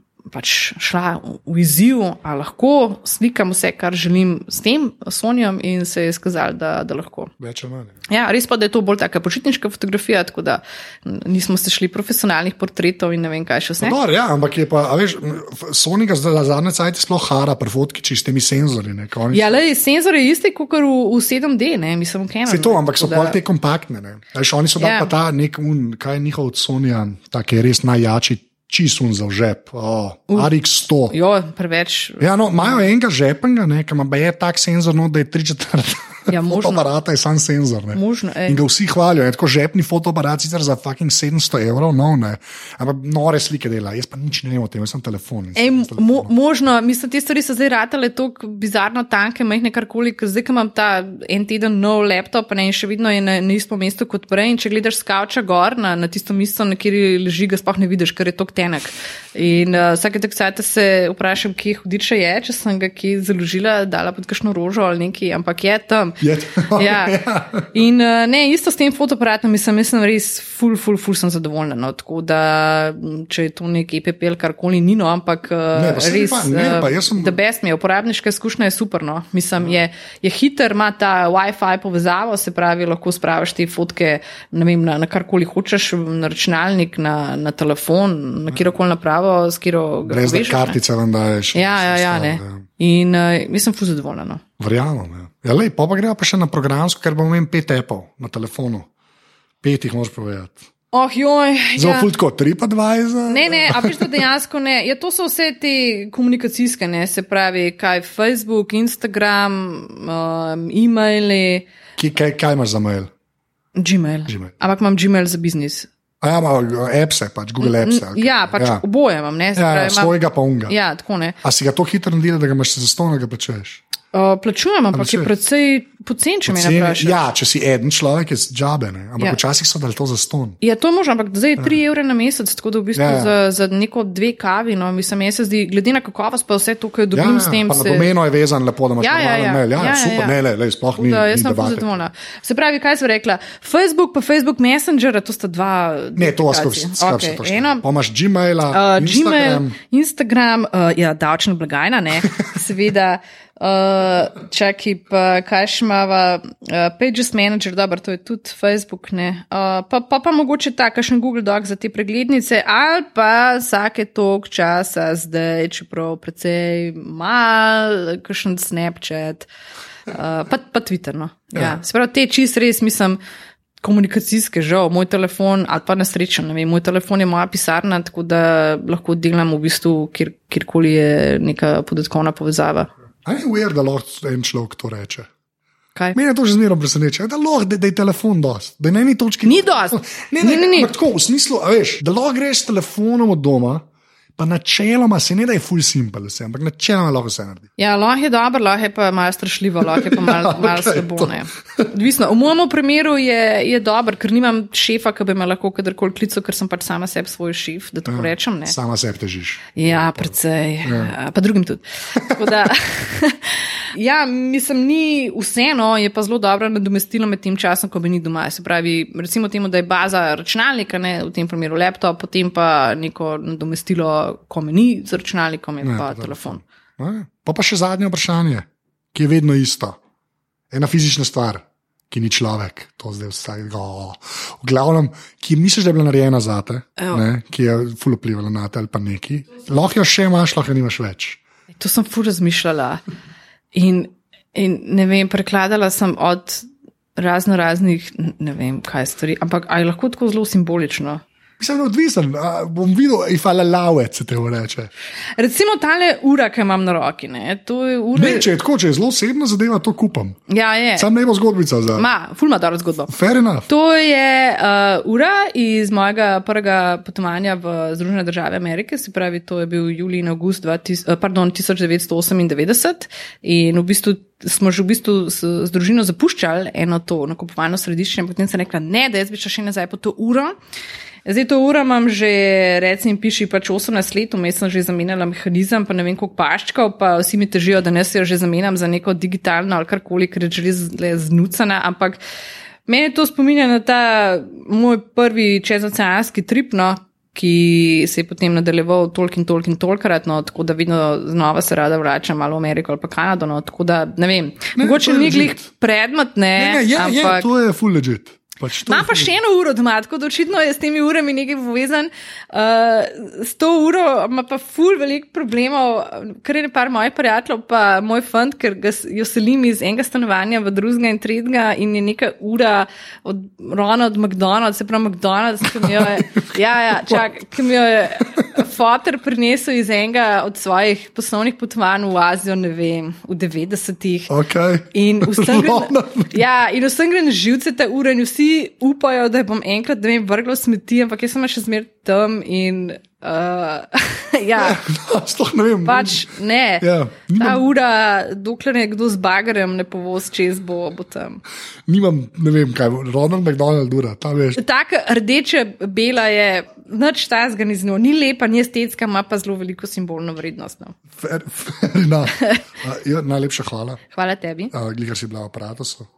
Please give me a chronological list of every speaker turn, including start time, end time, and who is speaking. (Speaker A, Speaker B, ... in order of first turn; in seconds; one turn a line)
Speaker A: 0.3-7.3
Speaker B: 7.4-8.0
Speaker A: 8.1-14.0
Speaker B: 13.8-19.5
Speaker A: 19.3-23.4
Speaker B: 22.4-31.1
Speaker A: 24.8-25.1
Speaker A: 31.1-32.8
Speaker B: 32.2-46.3
Speaker A: 36.3-36.9
Speaker A: 37.9-38.6
Speaker A: 45.5-90.8
Speaker B: 66.2-67.7
Speaker B: 75.7-77.3
Speaker B: 90.0-92.6
Speaker A: 91.5-94.4
Speaker B: 94.6-98.9
Speaker B: 99.6-100.6
Speaker A: 100.9-102.1
Speaker B: 101.8-104.1
Speaker A: 103.3-111.7
Speaker B: 112.0-113.1
Speaker A: 113.7-115.9
Speaker B: 114.3-114.5
Speaker B: 116.2-118.8
Speaker A: 117.6-121.4
Speaker B: 119.5-120.8
Speaker B: 121.4-123.8
Speaker A: 124.1-127.3
Speaker B: 124.9-125.3
Speaker B: 126.5-130.6
Speaker A: 130.6-138.1
Speaker B: 132.9-133.3
Speaker B: 137.1-142.0
Speaker A: 139.0-140.3
Speaker A: 141.0-147.8
Speaker B: 146.2-149.8
Speaker A: 148.7-169.5
Speaker A: 170.1-173.2
Speaker A: 173.8-182.9
Speaker B: 183.2-185.3
Speaker B: 186.1-193.8
Speaker A: 189.4-190.9
Speaker B: 194.4-197.7
Speaker A: 197.8-208.7
Speaker B: 199.8-201.9
Speaker B: 208.1-210.3
Speaker A: 209.8-226.6
Speaker B: 210.8-211.1
Speaker B: 212.2-212.5
Speaker B: 225.8-230.0
Speaker B: 230.7-241.4
Speaker A: 241.7-243.0
Speaker A: 243.7-246.6
Speaker A: 247.2-251.2
Speaker B: 251.6-254.9
Speaker A: 255.4-258.5
Speaker B: 258.1-260.4
Speaker A: 260.5-261.1
Speaker B: 260.9-262.1
Speaker A: 261.9-263.1
Speaker B: 263.1-263.7
Speaker A: 263.7-280.5
Speaker A: 281.2-292.2
Speaker A: 292.9-307.5
Speaker B: 304.7-305.6
Speaker B: 306.6-309.3
Speaker A: 308.9-334.3
Speaker B: 325.7-327.2
Speaker B: 334.3-336.4
Speaker A: 334.9-344.8
Speaker B: 344.6-346.2
Speaker A: 345.8-351.4
Speaker B: 346.8-347.6
Speaker B: 351.9-354.6
Speaker A: 354.6-360.9
Speaker B: 361.2-364.0
Speaker A: 364.1-364.7
Speaker B: 364.7-366.1